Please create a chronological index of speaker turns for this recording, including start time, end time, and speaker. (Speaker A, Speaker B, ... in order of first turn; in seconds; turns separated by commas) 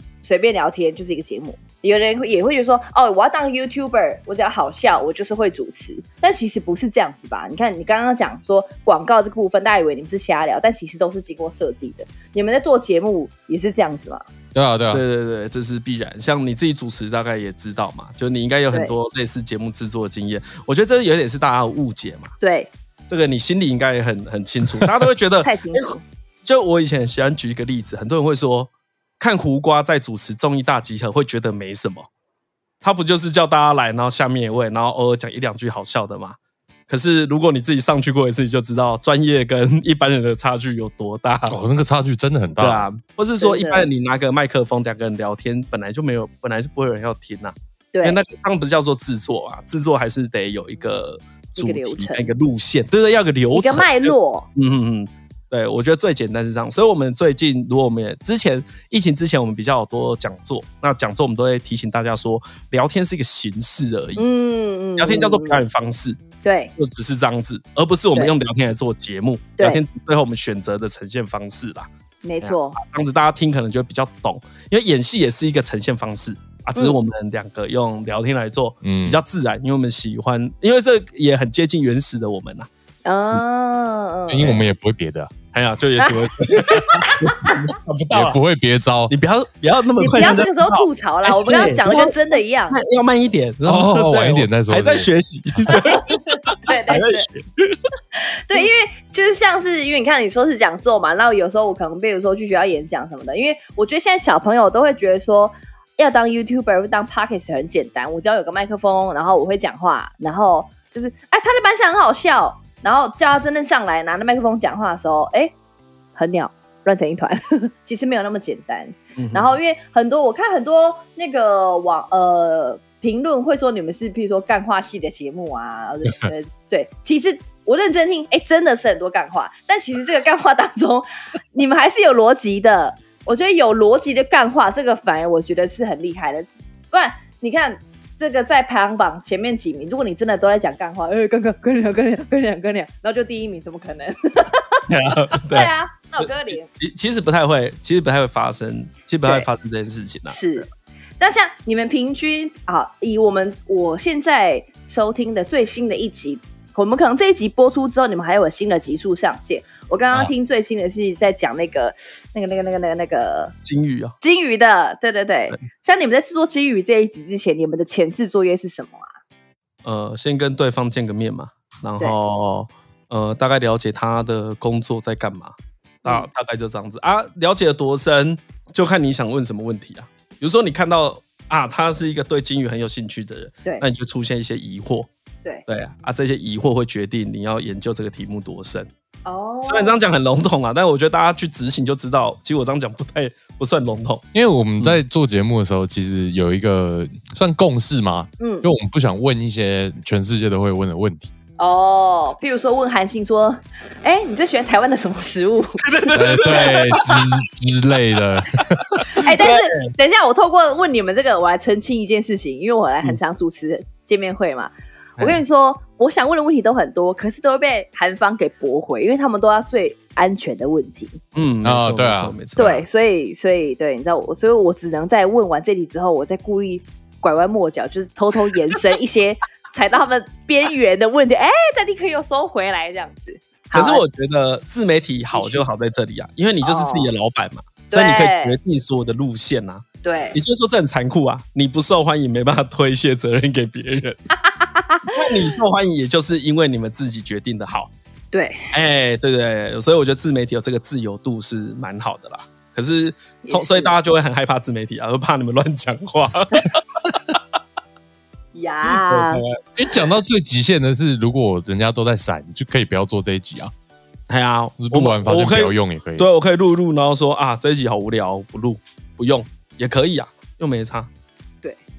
Speaker A: 0.2-14.2, Speaker B: 14.5-15.0, Speaker C: 14.9-22.3, Speaker A: 22.4-22.7, Speaker C: 23.1-32.1, Speaker A: 25.4-26.0, Speaker C: 32.8-41.6, Speaker B: 41.5-42.8, Speaker C: 42.6-64.2, Speaker A: 43.4-43.9, Speaker A: 47.9-48.2, Speaker A: 51.5-52.3, Speaker A: 53.5-54.5, Speaker A: 64.2-65.6, Speaker C: 65.0-66.2, Speaker A: 66.4-66.7, Speaker C: 66.8-71.9, Speaker A: 72.2-72.8, Speaker C: 72.4-82.7, Speaker B: 78.8-79.2, Speaker A: 83.0-84.4, Speaker B: 84.3-85.3, Speaker C: 84.4-84.7, Speaker C: 85.5-88.4, Speaker A: 86.0-87.2, Speaker B: 88.1-89.1, Speaker C: 89.1-97.7, Speaker A: 90.0-92.8, Speaker B: 93.7-95.1, Speaker A: 95.7-97.3, Speaker A: 98.5-115.5, Speaker A: 116.2-144.8, Speaker C: 119.2-119.5, Speaker C: 144.9-150.4, Speaker A: 145.5-146.7, Speaker A: 150.3-150.7, Speaker A: 151.2-163.5, Speaker C: 163.6-164.1, Speaker A: 164.2-169.1, Speaker C: 169.8-185.1, Speaker C: 185.7-188.9, Speaker A: 189.2-190.0, Speaker C: 189.6-194.2, Speaker B: 194.3-201.3, Speaker A: 198.4-198.7, Speaker A: 201.6-205.8, Speaker C: 205.8-207.2, Speaker B: 206.1-209.2, Speaker A: 206.5-207.1, Speaker A: 209.2-221.2, Speaker C: 209.2-209.9, Speaker C: 221.3-222.8, Speaker B: 221.6-222.3, Speaker A: 222.6-234.0, Speaker C: 233.7-244.2, Speaker A: 235.3-235.6, Speaker A: 236.6-237.1, Speaker A: 237.9-238.6, Speaker A: 240.0-240.4, Speaker A: 244.4-245.1, Speaker C: 245.1-247.9, Speaker A: 248.3-248.6, Speaker C: 248.7-257.4, Speaker A: 253.4-253.9, Speaker A: 258.5-259.4, Speaker C: 258.8-260.1, Speaker B: 259.8-263.7, Speaker C: 264.3-271.1, Speaker B: 264.8-266.3